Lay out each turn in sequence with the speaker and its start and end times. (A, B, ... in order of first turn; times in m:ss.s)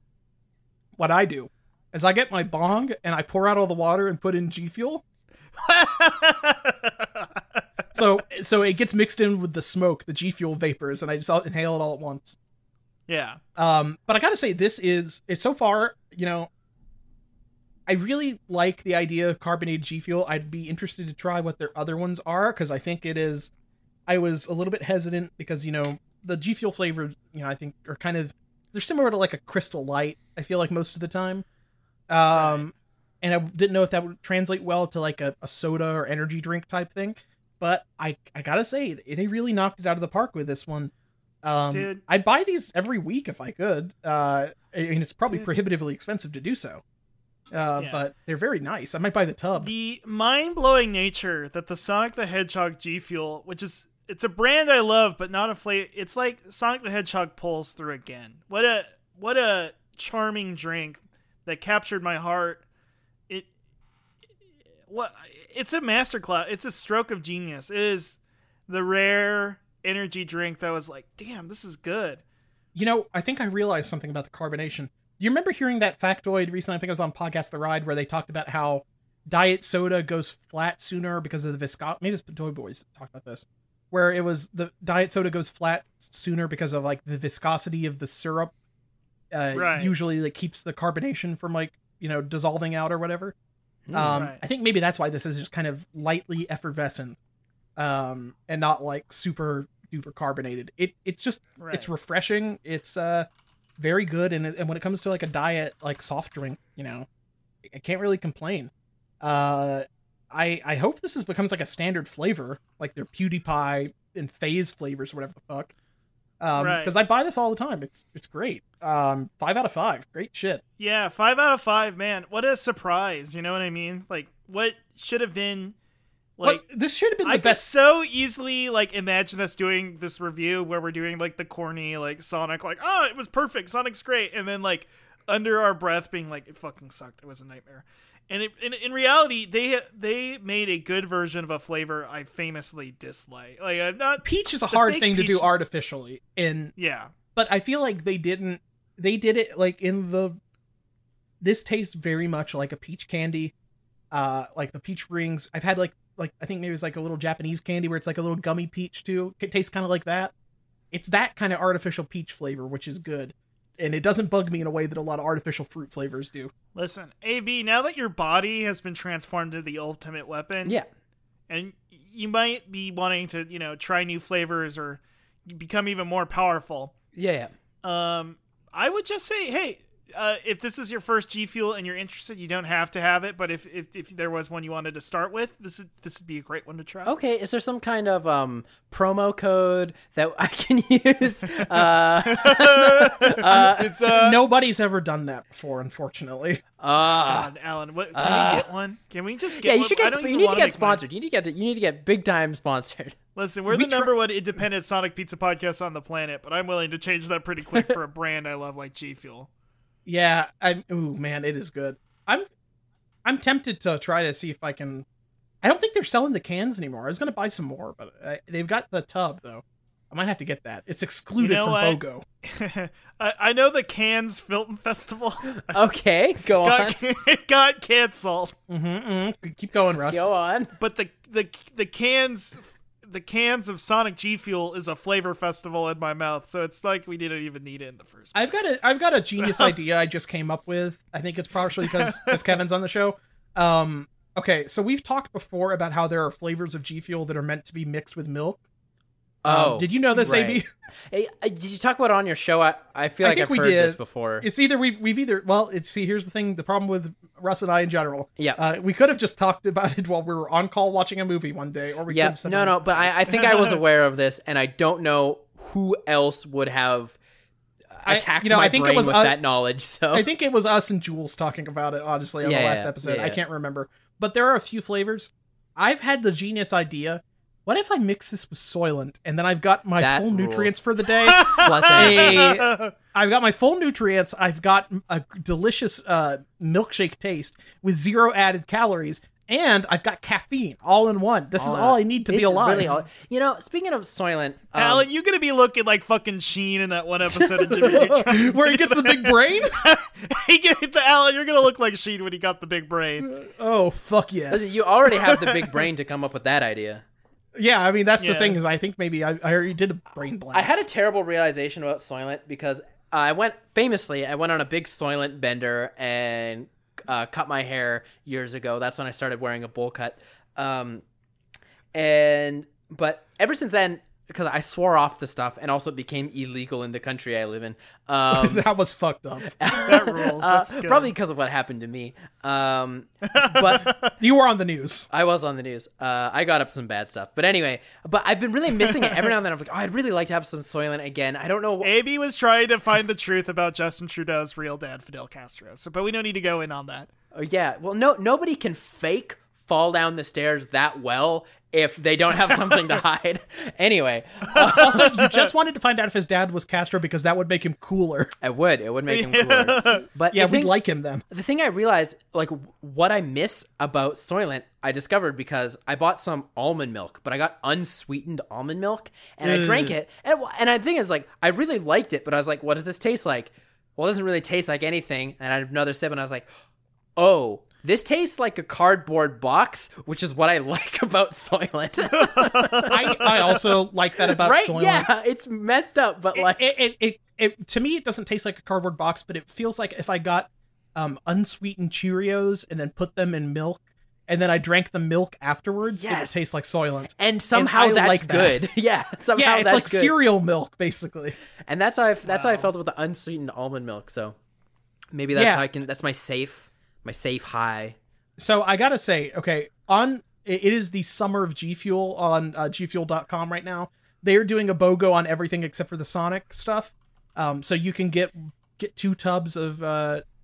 0:01.0-0:05.0 A
0:05.6-0:07.3 B
0:07.9-0:12.4 A
0:13.1-0:13.4 B
0:13.6-0:16.5 A
0:17.9-0:23.5 A
0:24.1-0:31.4 A
0:32.1-0:40.9 A
0:32.3-0:32.6 B
0:41.4-0:46.8 A
0:41.7-0:42.0 B
0:47.5-0:49.7 A
0:47.8-0:48.0 B
0:49.6-1:02.6 B
1:04.9-1:12.2 B
1:12.7-1:28.5 A
1:29.3-1:33.3 A
1:29.5-1:29.9 B
1:33.9-1:34.3 C
1:33.9-1:37.2 A
1:34.1-1:34.4 B
1:37.8-1:43.3 A
1:41.6-1:41.9 B
1:43.8-1:47.1 A
1:47.6-1:55.7 A
1:56.4-2:00.6 A
1:56.5-1:56.9 B
2:00.8-2:05.7 B
2:06.4-2:06.6 B
2:06.4-2:07.6 A
2:07.2-2:25.5 B
2:24.2-2:26.7 A
2:26.8-2:27.1 B
2:27.3-2:30.4 A
2:31.4-2:33.5 A
2:34.1-2:40.3 A
2:40.9-2:46.5 A
2:46.7-2:50.8 B
2:51.5-2:56.9 B
2:57.1-2:57.5 C
2:57.8-3:07.1 B
3:07.0-3:14.0 C
3:11.6-3:14.4 B
3:13.6-3:16.6 A
3:16.8-3:17.5 C
3:17.2-3:21.0 B
3:18.1-3:18.6 C
3:19.6-3:23.2 C
3:23.4-3:29.5 B
3:23.7-3:24.1 A
3:30.0-3:32.5 A
3:33.2-3:35.0 A
3:35.6-3:42.2 A
3:41.4-3:45.8 B
3:45.6-3:47.0 C
3:46.6-3:48.5 B
3:48.7-3:50.3 A
3:50.1-3:50.7 C
3:50.8-3:58.5 B
3:58.3-4:08.6 A
3:59.3-3:59.7 B
4:01.8-4:02.6 B
4:09.4-4:14.5 C
4:09.4-4:10.7 A
4:13.2-4:23.2 A
4:22.1-4:27.2 C
4:23.3-4:23.8 B
4:27.9-4:30.3 C
4:28.0-4:29.4 A
4:30.1-4:52.9 A
4:32.4-4:33.4 C
4:40.0-4:40.8 C
4:41.2-4:42.9 B
4:41.3-4:42.5 C
4:51.6-4:55.1 C
4:54.7-5:03.3 B
4:57.4-4:58.0 C
4:57.7-4:59.8 A
5:03.2-5:04.8 A
5:04.5-5:07.0 C
5:05.3-5:05.8 B
5:07.5-5:10.8 A
5:08.2-5:08.6 B
5:10.5-5:21.0 C
5:21.9-5:28.7 C
5:28.3-5:29.5 A
5:29.5-5:33.9 C
5:29.8-5:31.1 B
5:33.3-5:34.1 B
5:34.2-5:35.1 A
5:35.1-5:41.9 C
5:38.8-5:39.2 B
5:41.8-5:47.1 B
5:47.3-5:55.1 C
5:54.6-5:58.3 A
5:54.6-5:55.5 B
5:58.4-6:00.8 C
5:59.1-6:00.1 B
6:00.3-6:01.2 A
6:01.3-6:16.5 C
6:09.4-6:10.0 A
6:17.2-6:23.3 C
6:22.1-6:23.6 B
6:22.9-6:25.1 A
6:24.3-6:26.7 C
6:26.4-6:38.6 A
6:35.9-6:36.5 C
6:37.2-6:40.1 C
6:39.4-6:41.4 A
6:41.7-6:44.4 C
6:42.2-6:42.7 B
6:45.1-6:48.0 C
6:45.3-6:45.6 A
6:48.4-7:00.2 A